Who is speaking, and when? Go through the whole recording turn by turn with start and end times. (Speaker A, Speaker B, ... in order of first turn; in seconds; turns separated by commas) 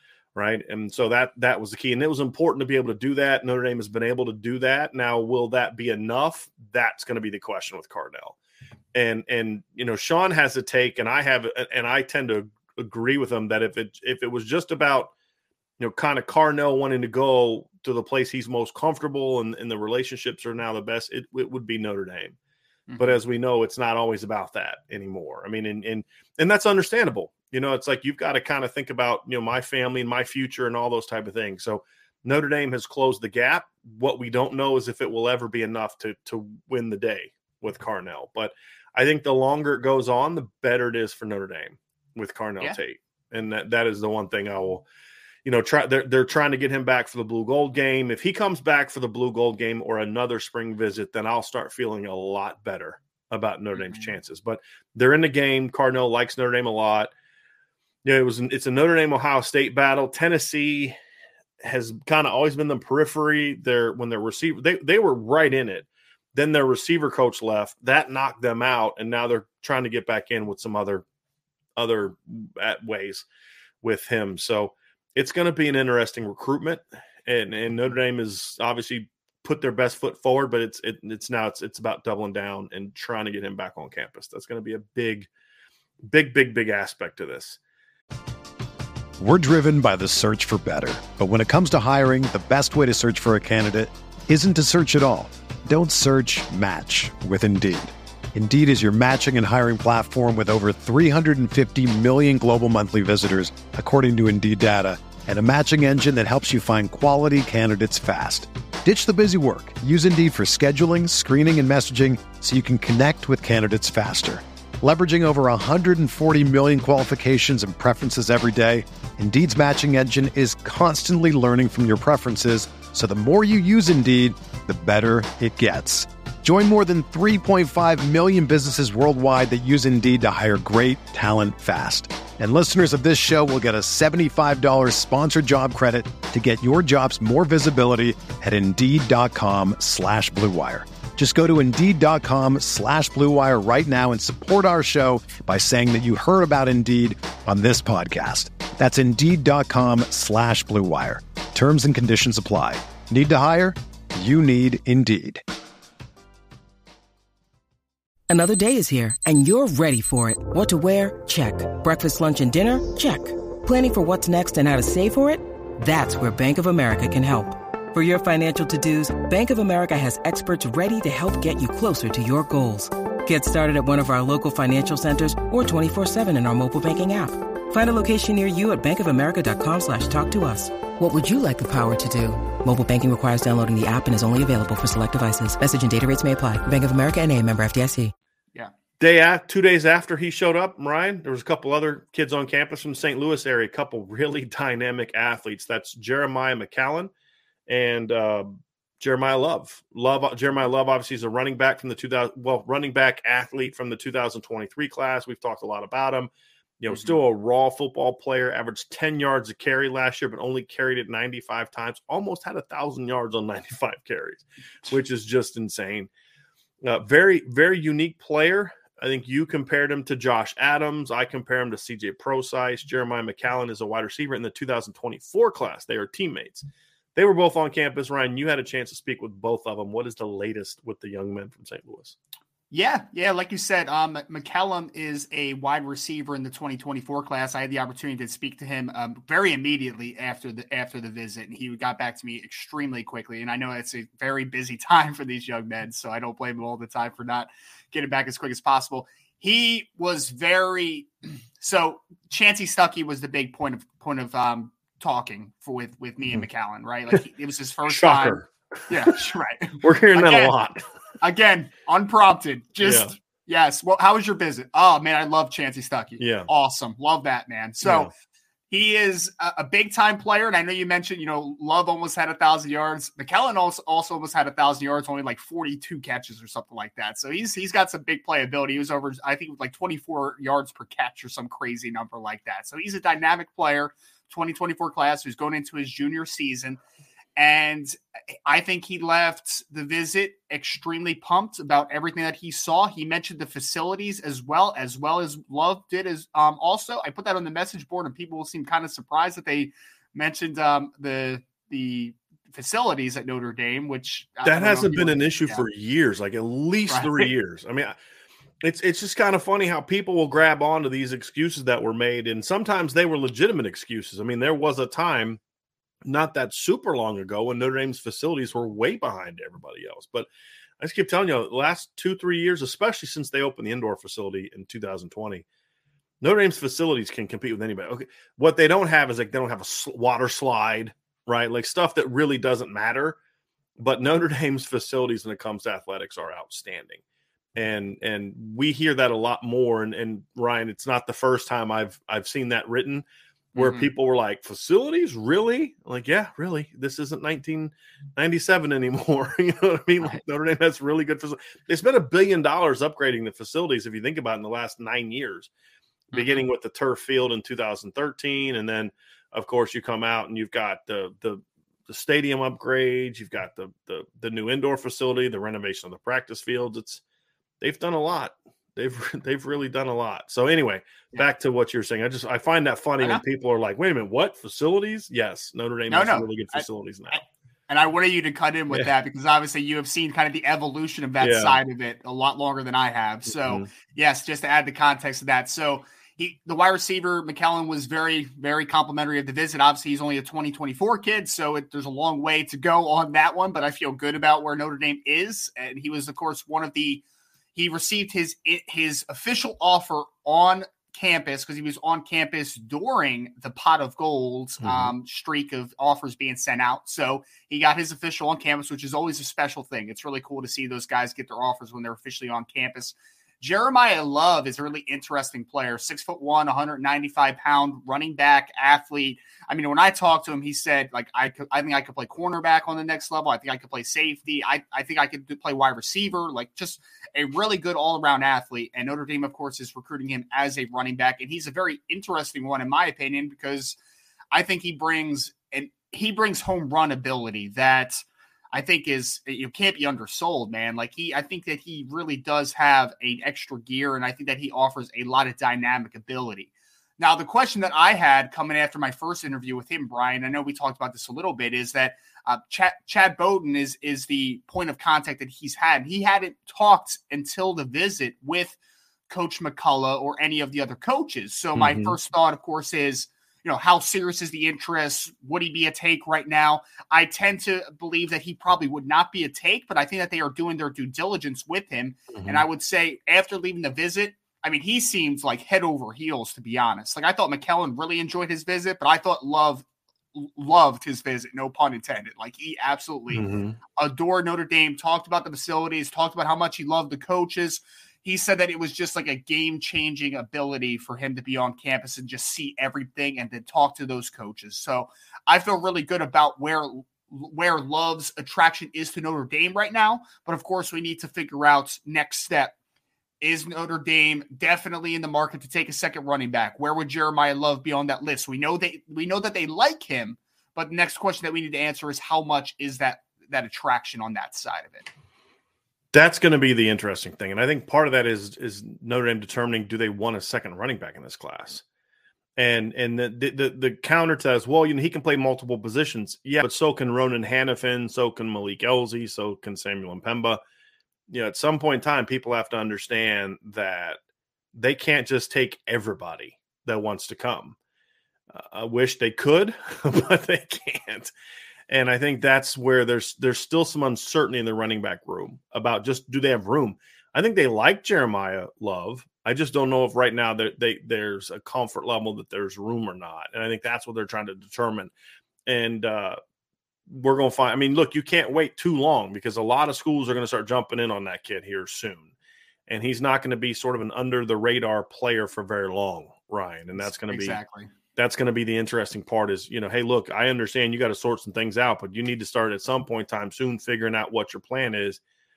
Speaker A: 0.3-8.4, Speaker A: 8.9-15.1, Speaker A: 15.8-22.4, Speaker B: 22.9-23.2, Speaker A: 23.0-44.8, Speaker A: 45.5-57.1, Speaker B: 53.8-54.1, Speaker A: 58.0-61.0, Speaker A: 61.6-71.0, Speaker A: 71.8-73.2, Speaker A: 73.8-85.3, Speaker A: 86.0-87.6, Speaker C: 89.2-155.4, Speaker D: 158.3-188.1, Speaker A: 189.0-197.1, Speaker A: 197.7-216.1, Speaker B: 206.9-207.2, Speaker A: 216.8-232.2, Speaker B: 232.7-260.6, Speaker A: 257.9-259.2, Speaker A: 259.8-260.8, Speaker B: 261.2-268.1, Speaker A: 262.8-263.1, Speaker A: 266.2-266.5, Speaker A: 267.8-268.1, Speaker B: 268.7-286.8, Speaker B: 287.4-305.6, Speaker A: 304.4-307.9, Speaker B: 306.9-307.3, Speaker A: 308.6-315.4, Speaker A: 316.1-320.3, Speaker A: 320.8-325.4, Speaker A: 326.2-333.2, Speaker A: 333.8-337.0, Speaker A: 337.6-343.1, Speaker B: 343.6-343.9, Speaker A: 343.6-355.5, Speaker B: 356.1-356.4, Speaker A: 356.1-367.0, Speaker A: 367.6-377.2, Speaker B: 375.9-397.0, Speaker A: 381.2-381.6, Speaker A: 383.4-383.7, Speaker B: 397.6-433.8, Speaker A: 404.6-404.9, Speaker B: 434.3-458.6, Speaker B: 459.1-483.2, Speaker A: 461.6-461.9, Speaker A: 472.1-472.4, Speaker A: 483.1-483.6, Speaker B: 483.8-502.5, Speaker B: 503.2-514.9, Speaker A: 515.9-521.6, Speaker A: 522.4-530.4, Speaker A: 531.1-534.0, Speaker A: 534.5-537.6, Speaker A: 538.3-541.1, Speaker A: 541.7-554.9, Speaker A: 555.5-556.2, Speaker A: 556.9-562.1, Speaker A: 562.7-567.4, Speaker B: 566.8-567.7, Speaker A: 568.0-575.0